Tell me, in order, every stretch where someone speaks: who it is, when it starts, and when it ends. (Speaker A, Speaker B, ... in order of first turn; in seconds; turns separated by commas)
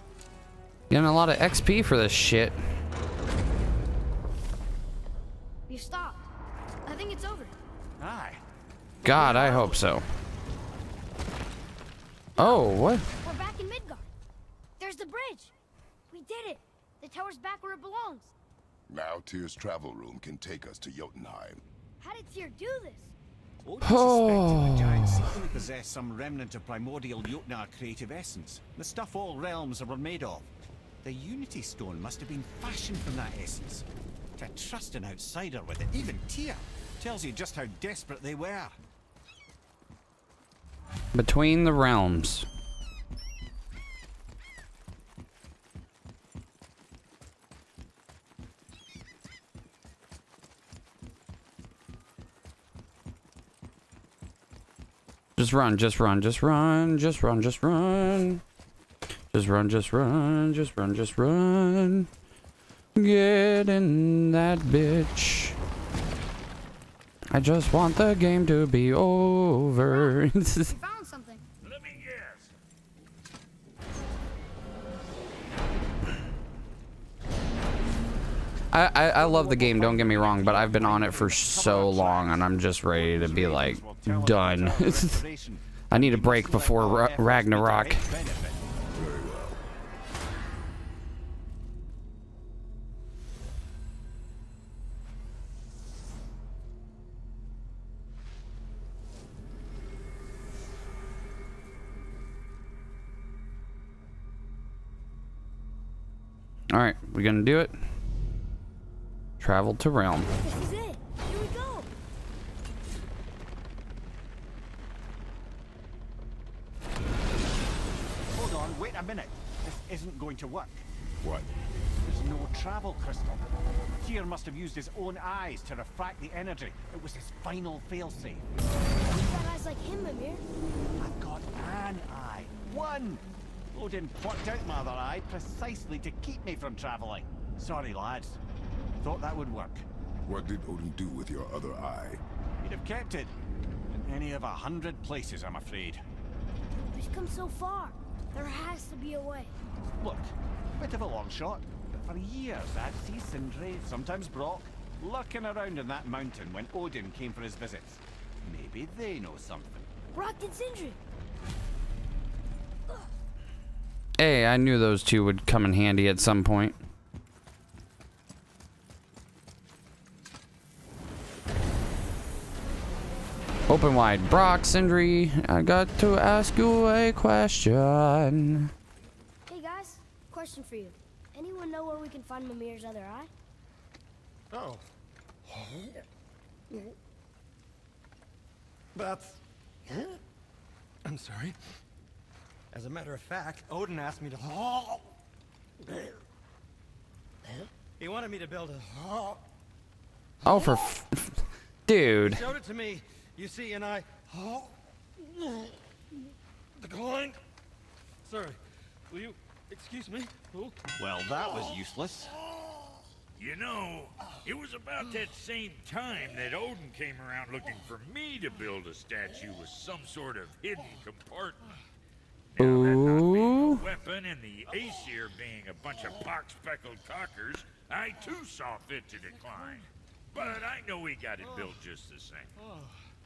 Speaker A: 0.9-2.6, Speaker B: 5.7-6.2, Speaker B: 6.9-7.5, Speaker C: 8.0-8.4, Speaker A: 9.0-10.1, Speaker B: 9.1-9.9, Speaker A: 12.4-13.1, Speaker B: 12.4-12.6, Speaker B: 13.2-14.1, Speaker B: 14.8-15.5, Speaker B: 16.1-18.3, Speaker D: 18.9-21.6, Speaker B: 22.0-23.1, Speaker C: 23.6-30.5, Speaker A: 23.8-25.2, Speaker C: 31.0-33.9, Speaker C: 34.4-38.7, Speaker A: 41.1-42.5, Speaker A: 55.4-58.4, Speaker A: 59.3-62.1, Speaker A: 63.0-65.5, Speaker A: 67.3-70.7, Speaker B: 69.9-70.2, Speaker B: 70.7-71.4, Speaker E: 71.6-72.5, Speaker A: 78.7-85.2, Speaker C: 79.2-88.6, Speaker A: 85.9-88.1, Speaker D: 88.9-89.6, Speaker A: 106.7-107.8, Speaker A: 109.4-110.3, Speaker B: 110.4-111.9, Speaker C: 118.3-120.8, Speaker D: 121.2-121.5, Speaker C: 122.0-123.5, Speaker C: 124.0-128.4, Speaker B: 129.1-130.4, Speaker C: 131.0-138.4, Speaker C: 139.0-139.8, Speaker D: 140.2-142.2, Speaker C: 142.6-143.3, Speaker C: 143.9-146.0, Speaker B: 146.9-149.5, Speaker C: 150.0-159.9, Speaker B: 160.1-161.0, Speaker A: 164.2-166.8, Speaker A: 173.7-178.7, Speaker B: 179.5-183.3, Speaker F: 184.5-184.8, Speaker F: 185.5-186.1, Speaker F: 188.9-190.2, Speaker F: 191.1-191.6, Speaker F: 192.7-195.1, Speaker F: 195.9-196.1, Speaker F: 197.5-199.4, Speaker A: 200.4-202.4, Speaker F: 202.2-204.8, Speaker F: 205.4-205.7, Speaker F: 206.8-207.4, Speaker F: 208.2-210.8, Speaker C: 211.0-212.3, Speaker E: 213.4-221.7, Speaker E: 222.6-232.5, Speaker A: 222.6-223.8, Speaker F: 232.6-232.9